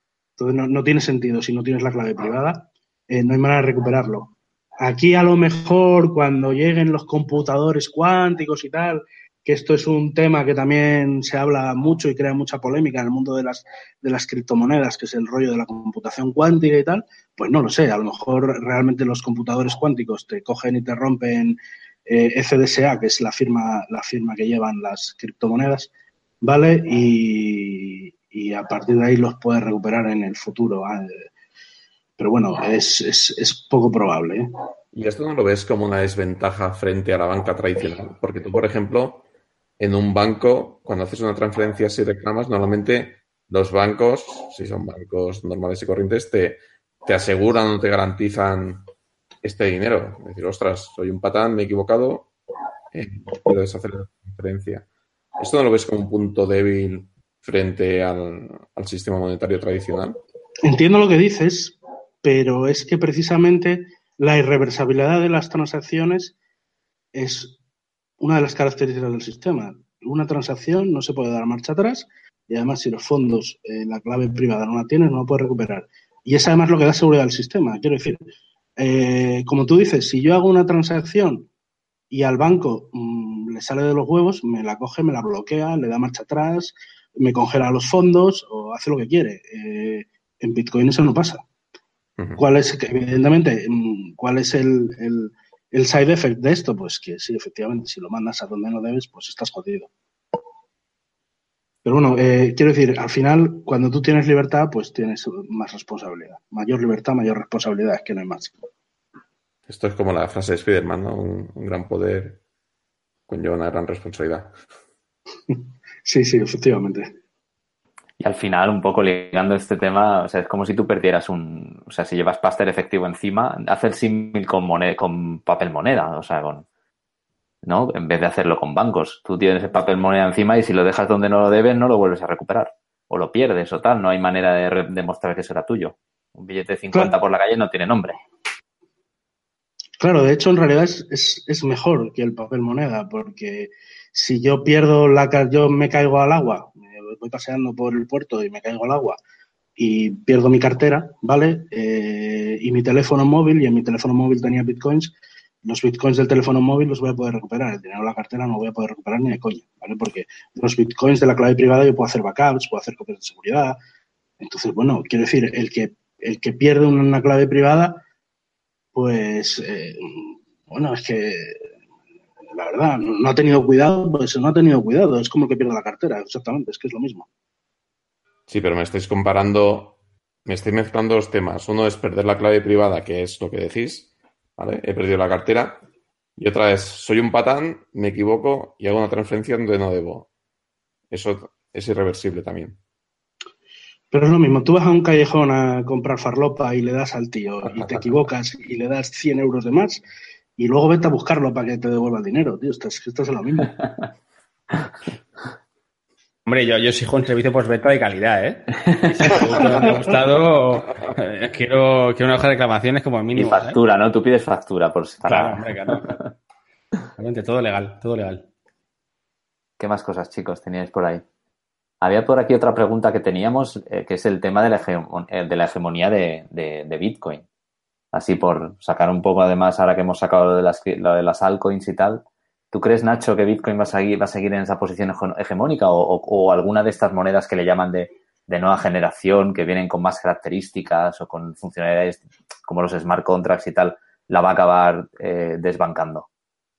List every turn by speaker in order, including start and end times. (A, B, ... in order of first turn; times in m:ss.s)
0:00.4-0:25.9 A
0:26.4-0:31.2 A
0:32.2-0:34.5 A
0:34.9-0:39.2 B
0:39.8-0:48.8 B
0:49.4-0:52.3 B
0:52.9-0:54.8 B
0:55.4-1:00.2 B
1:00.6-1:06.3 A
1:07.1-1:07.6 A
1:08.2-1:18.2 A
1:18.8-1:21.5 A
1:22.1-1:31.4 A
1:32.4-1:39.9 A
1:41.8-1:48.5 A
1:49.7-1:52.4 B
1:53.3-1:54.5 B
1:55.5-1:57.1 A
1:58.2-2:06.6 C
2:07.6-2:18.2 C
2:20.0-2:29.2 A
2:29.8-2:43.8 A
2:44.4-2:48.0 A
2:48.9-2:51.7 A
2:52.5-2:57.3 A
2:58.5-3:05.8 B
3:06.4-3:10.3 B
3:11.1-3:12.8 B
3:14.1-3:20.0 A
3:20.6-3:23.7 A
3:26.4-3:33.8 D
3:28.9-3:29.7 C
3:33.3-3:36.1 C
3:35.3-3:36.2 D
3:37.2-3:38.4 D
3:39.8-3:41.2 C
3:42.0-3:47.4 C
3:48.1-4:06.3 C